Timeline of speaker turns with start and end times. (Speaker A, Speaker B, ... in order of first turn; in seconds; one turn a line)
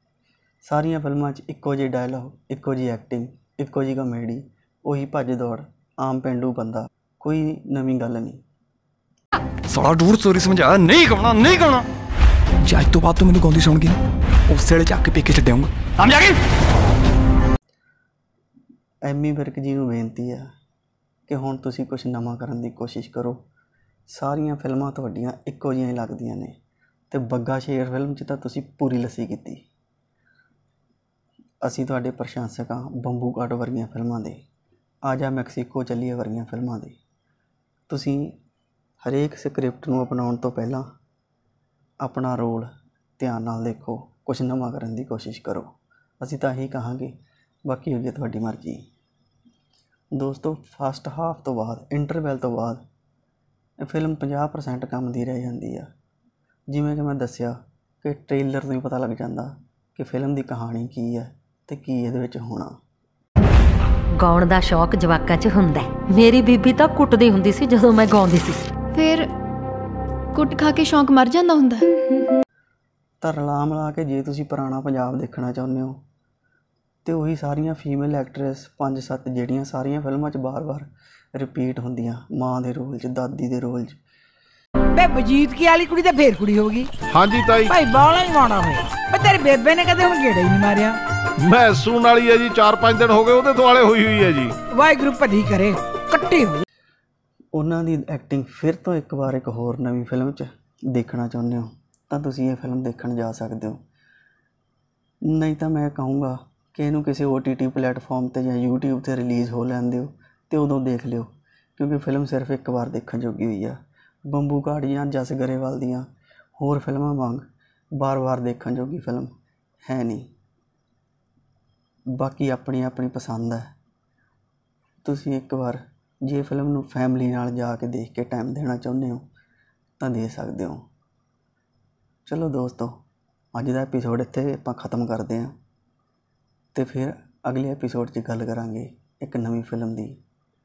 Speaker A: 0.6-8.4
Speaker B: 9.7-11.8
Speaker B: 12.6-16.4
Speaker A: 19.0-20.5
Speaker A: 21.3-23.4
Speaker A: 24.1-26.5
Speaker A: 27.1-29.6
Speaker A: 31.6-34.4
Speaker A: 35.0-37.0
Speaker A: 37.9-38.3
Speaker A: 39.0-40.9
Speaker A: 42.0-47.1
Speaker A: 47.6-48.8
Speaker A: 50.1-52.8
Speaker A: 53.8-55.9
Speaker A: 56.7-62.7
Speaker C: 64.2-68.6
Speaker D: 68.9-69.3
Speaker D: 70.3-72.4
Speaker A: 73.2-76.0
Speaker A: 77.0-84.0
Speaker E: 84.9-86.9
Speaker F: 87.1-87.7
Speaker E: 87.7-91.0
Speaker F: 91.4-94.5
Speaker E: 94.7-96.6
Speaker A: 97.5-103.8
Speaker A: 105.2-119.3
Speaker A: 119.8-120.3
Speaker A: 122.1-123.7
Speaker A: 125.0-129.2
Speaker A: 130.0-130.8
Speaker A: 132.2-133.0
Speaker A: 133.5-135.5
Speaker A: 136.7-140.2